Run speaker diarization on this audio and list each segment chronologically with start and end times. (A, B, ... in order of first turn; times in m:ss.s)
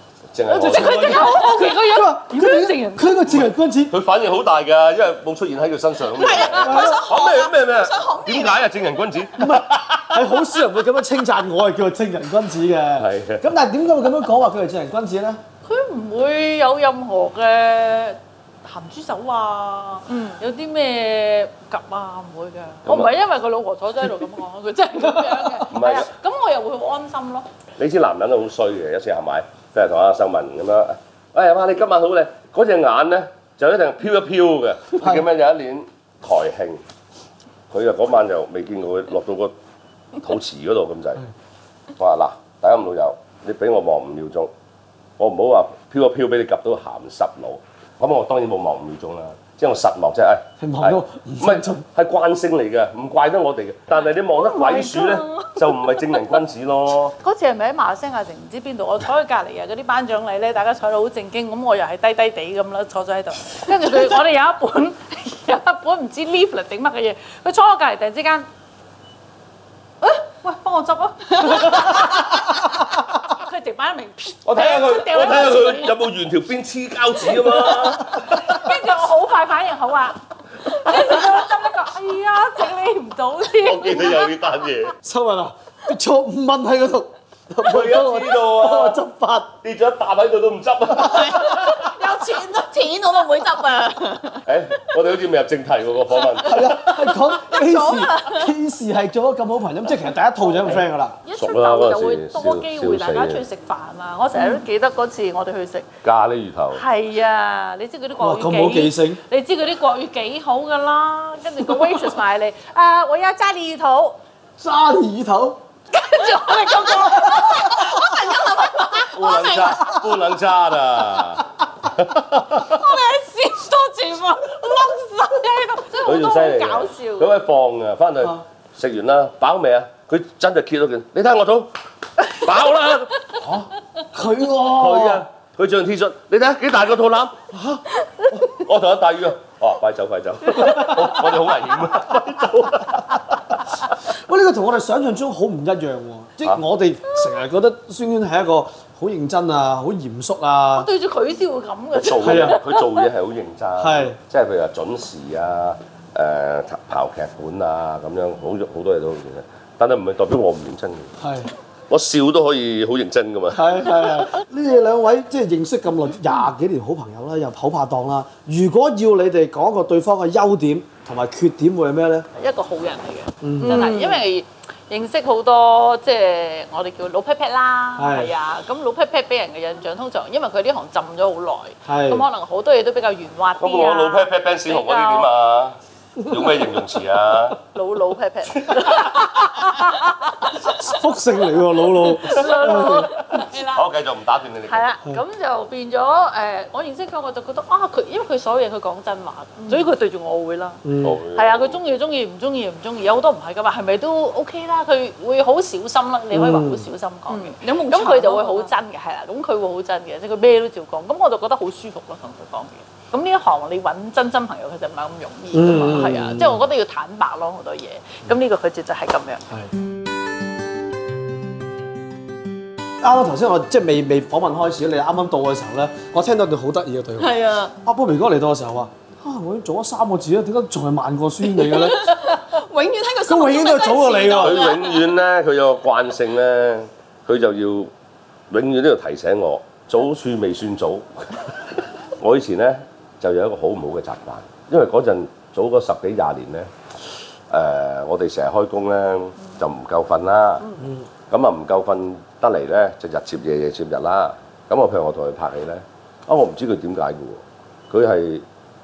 0:00.3-0:01.3 A
0:00.5-0:03.9 B
0:00.5-0:03.2 C
0:03.2-0:10.4 A
0:06.1-0:08.7 D
0:06.6-0:07.0 B
0:09.4-0:15.4 B
0:13.0-0:13.4 A
0:15.6-0:27.5 C
0:22.8-0:23.1 A
0:25.7-0:26.1 A
0:27.8-0:36.8 A
0:37.7-0:39.5 A
0:40.2-0:41.2 A
0:42.0-0:44.5 A
0:45.2-0:57.2 A
0:50.6-0:51.8 B
0:54.3-0:55.7 C
0:57.2-1:08.5 C
1:10.0-1:16.0 C
1:14.4-1:18.7 A
1:18.1-1:24.3 C
1:23.6-1:24.9 A
1:25.0-1:29.5 B
1:27.6-1:29.0 A
1:29.6-1:31.8 A
1:31.0-1:34.4 D
1:31.8-1:32.6 C
1:34.4-1:36.8 A
1:36.4-1:41.2 B
1:36.6-1:38.5 D
1:40.6-1:45.9 C
1:41.3-1:43.4 A
1:46.0-1:46.8 A
1:46.7-1:54.2 C
1:48.2-1:49.2 B
1:54.6-1:55.6 B
1:55.9-2:00.0 C
1:57.7-1:59.1 D
1:59.1-2:02.8 A
2:02.6-2:07.4 C
2:06.0-2:11.7 A
2:12.2-2:13.7 A
2:14.1-2:15.2 B
2:14.6-2:23.3 A
2:24.1-2:30.9 B
2:30.7-2:33.1 C
2:31.9-2:41.1 A
2:32.2-2:32.6 B
2:33.8-2:34.2 B
2:41.2-2:41.5 B
2:41.9-2:44.2 A
2:43.5-2:52.3 B
2:52.4-3:05.3 C
2:53.4-2:53.8 B
2:53.6-2:54.2 D
2:58.0-2:58.3 B
3:01.9-3:02.2 B
3:03.6-3:07.6 A
3:07.6-3:10.9 C
3:08.6-3:09.0 A
3:10.6-3:13.1 B
3:11.9-3:13.8 C
3:13.6-3:14.9 A
3:14.7-3:20.8 C
3:20.8-3:21.2 B
3:21.0-3:21.8 A
3:21.3-3:39.4 C
3:26.3-3:26.9 B
3:27.3-3:28.7 D
3:35.5-3:36.6 B
3:43.0-3:52.1 B
3:47.2-3:47.8 D
3:51.6-3:55.0 D
3:53.3-3:54.7 B
3:54.4-3:57.9 A
3:58.5-4:01.6 A
4:02.2-4:06.7 A
4:07.5-4:10.7 A
4:11.3-4:18.4 A